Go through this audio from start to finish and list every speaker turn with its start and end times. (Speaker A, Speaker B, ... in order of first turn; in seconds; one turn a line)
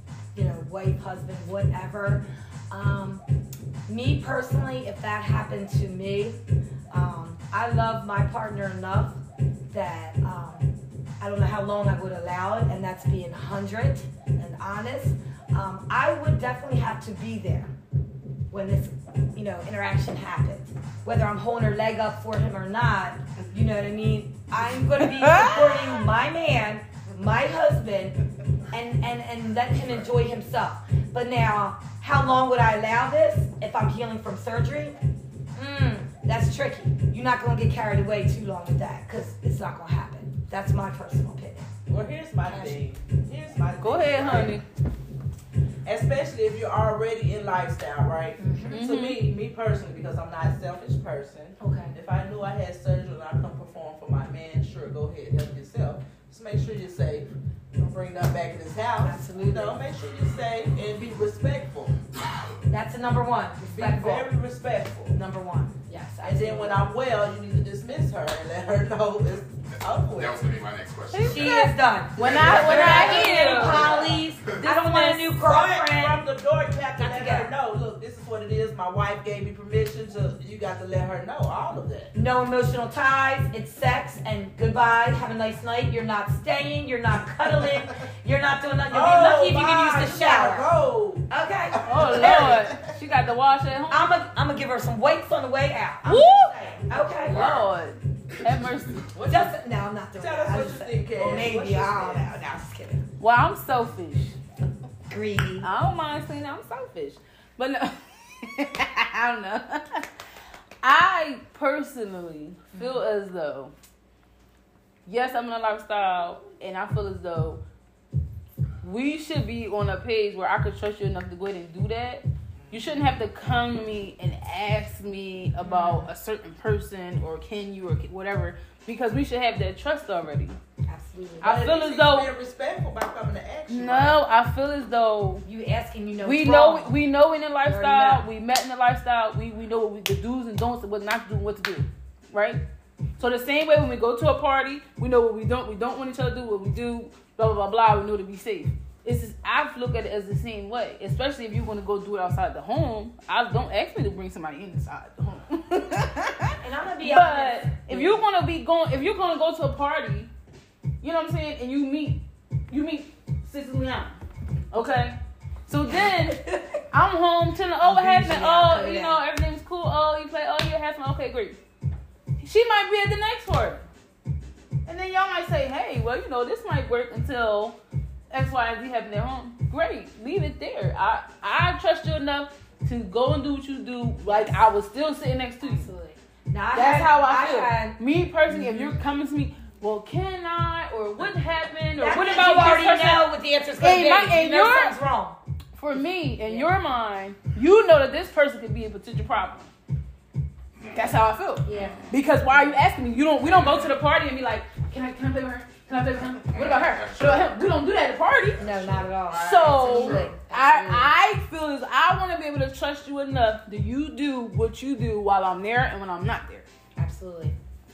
Speaker A: 0.3-3.2
Speaker A: 3.9-9.2
Speaker A: 9.7-17.7
Speaker A: 18.5-28.2
Speaker B: 25.0-26.0
Speaker A: 28.7-34.9
Speaker A: 35.5-41.7
Speaker C: 41.9-44.6
Speaker A: 42.5-42.8
Speaker B: 43.8-44.6
Speaker C: 45.8-61.9
Speaker A: 48.4-48.8
Speaker B: 48.7-49.2
Speaker A: 51.6-51.9
Speaker A: 59.0-59.8
Speaker A: 62.7-64.3
Speaker C: 63.7-65.2
Speaker A: 65.1-66.8
Speaker C: 66.2-70.4
Speaker D: 70.1-71.5
Speaker B: 71.1-74.0
Speaker A: 71.2-76.2
Speaker C: 72.2-74.2
Speaker D: 72.2-74.5
Speaker B: 74.5-75.3
Speaker C: 75.4-82.1
Speaker A: 77.0-77.5
Speaker A: 82.1-90.7
Speaker C: 88.9-92.8
Speaker A: 91.3-92.7
Speaker B: 91.8-94.1
Speaker A: 93.9-97.4
Speaker B: 96.0-99.1
Speaker D: 97.2-97.7
Speaker C: 99.1-99.5
Speaker A: 99.3-103.0
Speaker C: 100.2-102.3
Speaker B: 103.2-104.3
Speaker A: 105.1-105.7
Speaker B: 105.6-110.1
Speaker B: 110.8-113.7
Speaker A: 112.7-113.0
Speaker B: 115.0-117.6
Speaker B: 118.8-130.6
Speaker A: 125.6-126.1
Speaker A: 130.9-131.6
Speaker B: 131.4-132.3
Speaker C: 131.4-134.2
Speaker B: 133.7-135.4
Speaker A: 135.4-136.9
Speaker B: 136.2-142.6
Speaker A: 137.6-138.3
Speaker B: 143.2-160.3
Speaker A: 156.6-158.2
Speaker B: 161.0-164.2
Speaker B: 164.7-171.6
Speaker A: 166.3-166.7
Speaker A: 167.8-169.2
Speaker B: 172.4-173.8
Speaker B: 174.8-177.8
Speaker B: 178.3-185.9
Speaker A: 184.2-184.6
Speaker A: 185.6-189.0
Speaker B: 186.7-193.3
Speaker A: 192.0-195.4
Speaker B: 193.8-194.9
Speaker B: 195.8-199.7
Speaker A: 196.4-196.7
Speaker D: 200.8-202.2
Speaker B: 200.9-208.6
Speaker A: 201.6-202.0
Speaker D: 206.5-207.6
Speaker D: 208.6-210.3
Speaker A: 208.6-211.1
Speaker B: 209.3-216.7
Speaker A: 217.0-217.5